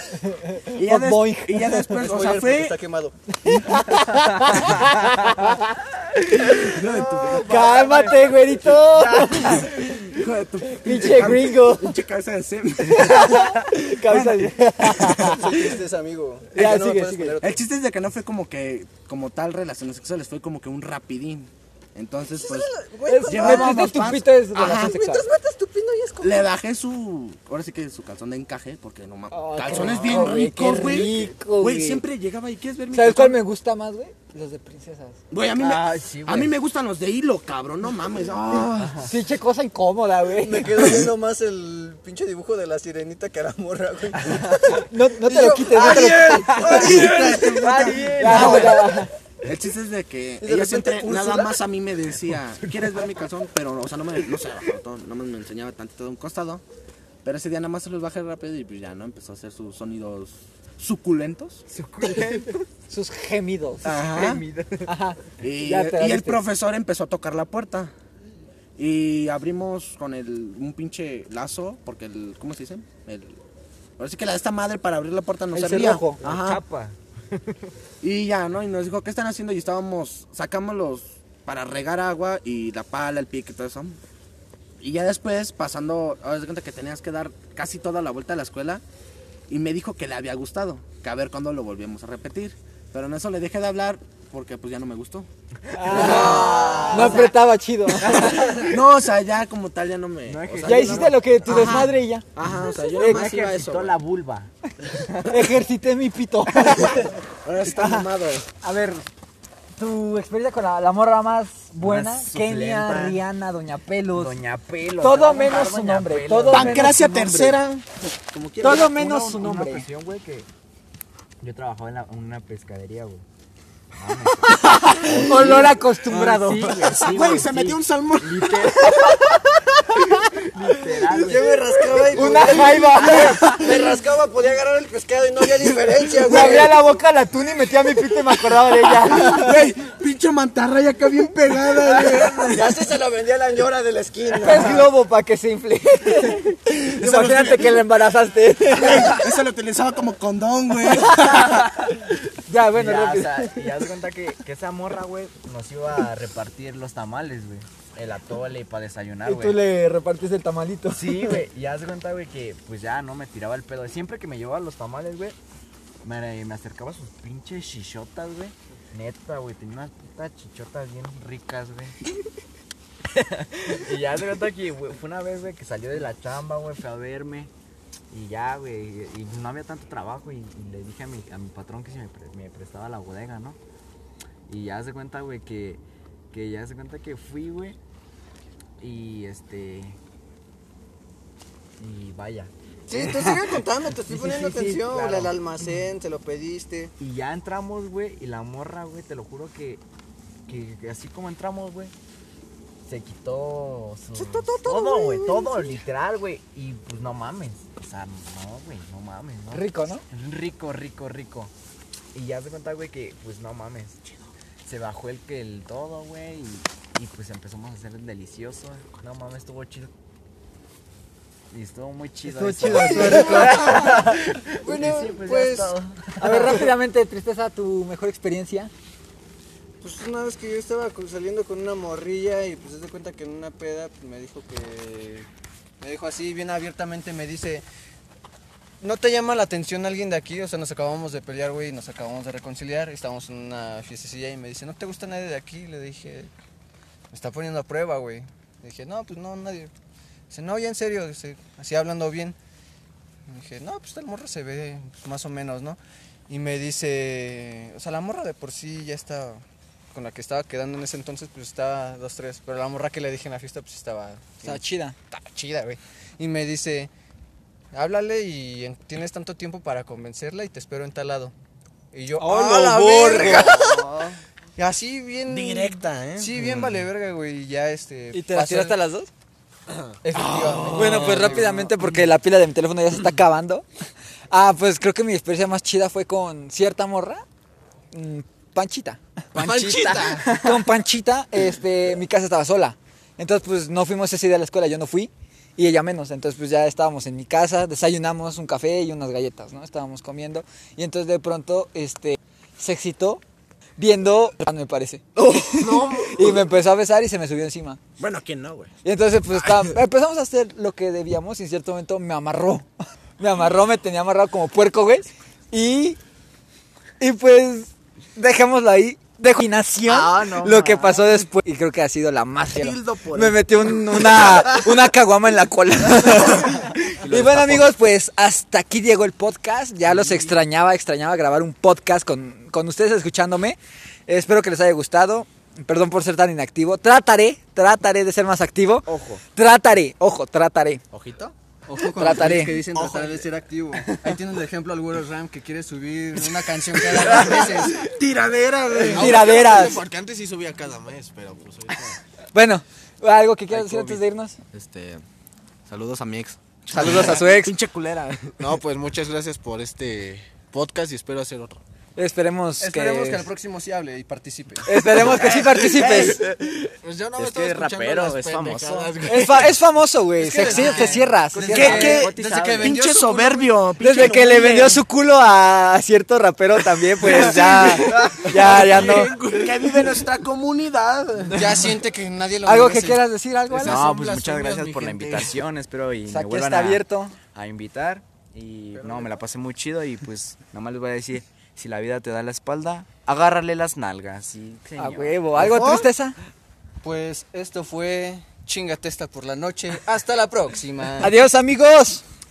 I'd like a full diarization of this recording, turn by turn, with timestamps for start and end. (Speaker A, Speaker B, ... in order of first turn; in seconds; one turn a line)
Speaker A: 0.2-2.0
Speaker B: 0.7-2.8
Speaker C: 1.9-3.1
Speaker A: 3.4-10.2
Speaker B: 3.6-3.9
Speaker B: 6.5-7.6
Speaker C: 6.8-9.6
Speaker B: 9.2-15.5
Speaker A: 10.8-11.9
Speaker A: 12.8-15.5
Speaker C: 15.2-17.6
Speaker A: 16.5-17.4
Speaker B: 17.4-25.0
Speaker C: 22.3-26.4
Speaker A: 23.1-25.3
Speaker B: 26.2-33.4
Speaker A: 29.3-32.0
Speaker D: 29.7-30.3
Speaker A: 32.9-35.2
Speaker B: 35.3-39.1
Speaker D: 35.6-36.5
Speaker A: 39.0-40.9
Speaker C: 40.4-48.5
Speaker A: 44.7-47.1
Speaker B: 46.4-56.6
Speaker A: 47.6-49.1
Speaker D: 47.8-48.5
Speaker C: 50.4-51.6
Speaker B: 57.2-61.6
Speaker D: 61.7-62.6
Speaker A: 62.0-64.1
Speaker B: 63.8-64.5
Speaker D: 64.1-64.9
Speaker A: 64.8-66.4
Speaker B: 65.4-67.9
Speaker B: 68.8-73.4
Speaker B: 74.0-76.6
Speaker A: 75.5-76.2
Speaker D: 76.2-77.7
Speaker B: 78.0-84.0
Speaker B: 84.8-88.8
Speaker B: 89.5-95.3
Speaker A: 95.7-98.8
Speaker D: 95.8-97.3
Speaker B: 95.9-97.2
Speaker C: 95.9-97.2
Speaker B: 98.3-104.0
Speaker D: 100.3-101.2
Speaker A: 100.6-102.2
Speaker D: 102.4-105.4
Speaker A: 103.0-103.5
Speaker A: 105.2-107.1
Speaker B: 106.8-108.5
Speaker A: 107.7-108.1
Speaker A: 108.6-109.0
Speaker A: 109.8-114.4
Speaker D: 111.8-113.2
Speaker D: 114.1-116.9
Speaker A: 115.0-117.6
Speaker B: 116.5-119.0
Speaker A: 118.6-119.8
Speaker D: 118.6-120.5
Speaker D: 121.4-123.2
Speaker D: 123.9-129.2
Speaker A: 124.5-127.5
Speaker B: 127.0-128.7
Speaker A: 128.7-131.3
Speaker D: 130.4-133.4
Speaker C: 131.1-136.8
Speaker A: 131.9-133.8
Speaker A: 136.2-139.6
Speaker B: 139.1-142.9
Speaker C: 141.9-144.9
Speaker A: 144.4-149.3
Speaker B: 146.9-147.9
Speaker B: 148.7-151.6
Speaker A: 151.1-153.6
Speaker D: 152.7-159.6
Speaker A: 159.2-161.4
Speaker D: 160.9-165.3
Speaker D: 166.0-171.9
Speaker D: 173.1-177.5
Speaker D: 178.1-183.6
Speaker D: 184.5-187.8
Speaker D: 188.8-190.0
Speaker D: 191.8-195.4
Speaker C: 192.9-196.9
Speaker D: 197.0-199.8
Speaker D: 200.5-201.9
Speaker D: 202.8-211.5
Speaker C: 204.1-205.7
Speaker A: 209.5-210.0
Speaker D: 212.1-219.9
Speaker D: 221.5-226.7
Speaker A: 222.2-224.2
Speaker C: 222.8-225.8
Speaker A: 226.2-228.7
Speaker C: 229.8-235.3
Speaker C: 235.8-237.6
Speaker C: 238.8-246.3
Speaker C: 247.1-249.7
Speaker C: 250.3-252.3
Speaker C: 253.3-266.9
Speaker A: 264.4-264.9
Speaker C: 267.7-271.3
Speaker C: 271.9-278.8
Speaker A: 272.2-273.8
Speaker B: 275.3-276.7
Speaker A: 278.1-279.1
Speaker C: 280.0-281.5
Speaker B: 280.1-280.8
Speaker D: 280.6-281.5
Speaker A: 280.7-283.6
Speaker A: 284.3-287.2
Speaker A: 287.9-303.2
Speaker E: 289.3-290.6
Speaker A: 303.8-307.8
Speaker B: 305.2-306.2
Speaker E: 305.5-306.0
Speaker B: 308.0-308.7
Speaker A: 308.8-312.7
Speaker A: 313.2-316.0
Speaker A: 317.0-340.8
Speaker D: 319.9-321.2
Speaker B: 322.5-324.6
Speaker D: 326.8-327.7
Speaker D: 329.9-330.3
Speaker D: 338.9-339.2
Speaker D: 340.9-341.3
Speaker C: 341.7-347.9
Speaker A: 341.9-342.6
Speaker E: 342.7-343.2
Speaker B: 346.9-349.3
Speaker E: 348.8-352.0
Speaker A: 348.9-349.8
Speaker A: 352.3-354.4
Speaker D: 353.6-354.0
Speaker B: 354.5-355.0
Speaker B: 355.7-358.4
Speaker A: 356.7-357.5
Speaker E: 358.4-361.6
Speaker A: 361.9-363.3
Speaker C: 362.6-364.7
Speaker A: 364.6-366.2
Speaker B: 365.0-366.2
Speaker E: 365.1-369.5
Speaker D: 367.1-368.9
Speaker A: 369.0-372.0
Speaker C: 370.2-373.5
Speaker D: 370.6-372.8
Speaker E: 371.3-372.0
Speaker B: 371.5-374.8
Speaker A: 373.8-379.1
Speaker E: 377.2-380.1
Speaker B: 378.4-381.6
Speaker C: 381.3-383.1
Speaker A: 382.4-383.9
Speaker E: 383.5-385.3
Speaker D: 383.5-395.4
Speaker A: 386.1-387.1
Speaker A: 394.8-396.1
Speaker B: 395.4-395.8
Speaker C: 396.8-401.2
Speaker A: 401.0-402.0